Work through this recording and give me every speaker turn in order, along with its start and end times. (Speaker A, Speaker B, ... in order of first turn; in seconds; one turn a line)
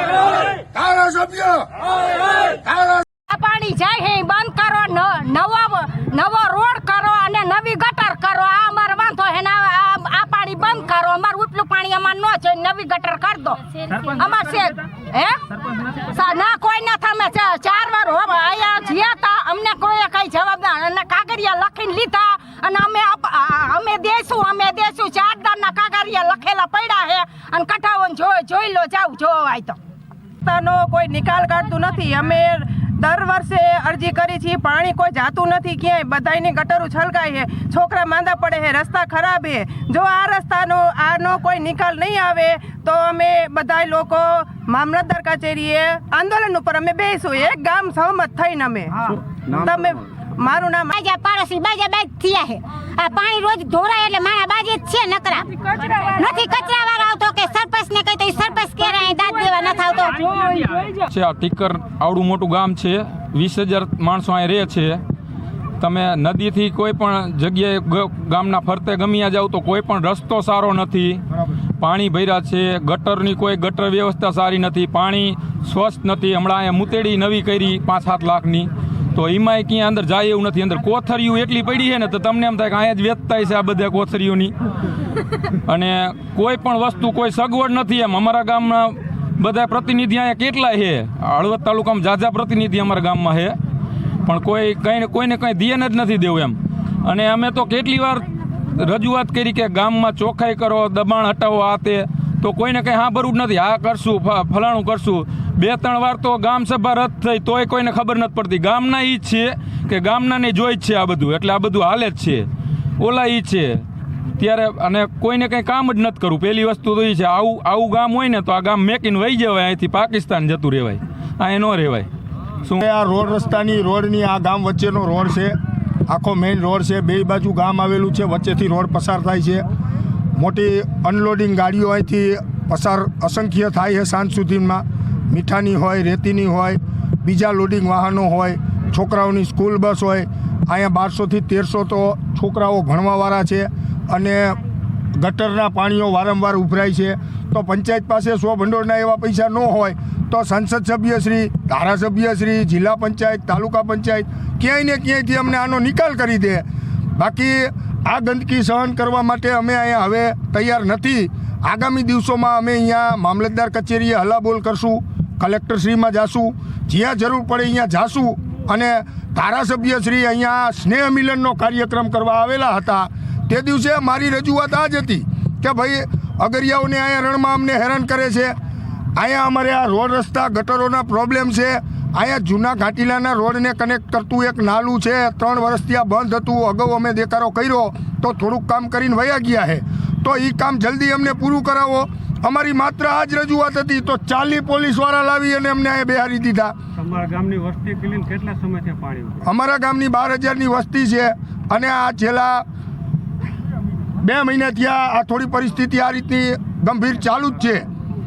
Speaker A: 0.6-1.8
Speaker A: 2.4-3.0
Speaker B: 3.3-29.8
Speaker C: 30.4-48.9
Speaker C: 49.5-50.9
Speaker D: 50.9-55.5
Speaker D: 56.0-60.5
Speaker B: 60.4-60.9
Speaker E: 61.1-65.0
Speaker E: 65.8-71.2
Speaker E: 71.8-84.5
Speaker E: 85.7-93.5
Speaker E: 94.2-98.2
Speaker E: 98.8-112.5
Speaker E: 113.0-113.8
Speaker E: 114.4-122.1
Speaker A: 122.8-125.6
Speaker A: 126.1-129.7
Speaker A: 130.4-144.6
Speaker A: 145.2-156.7
Speaker A: 157.2-178.6
Speaker A: 179.2-196.8
Speaker F: 197.0-199.4
Speaker A: 199.4-202.7
Speaker A: 204.2-207.8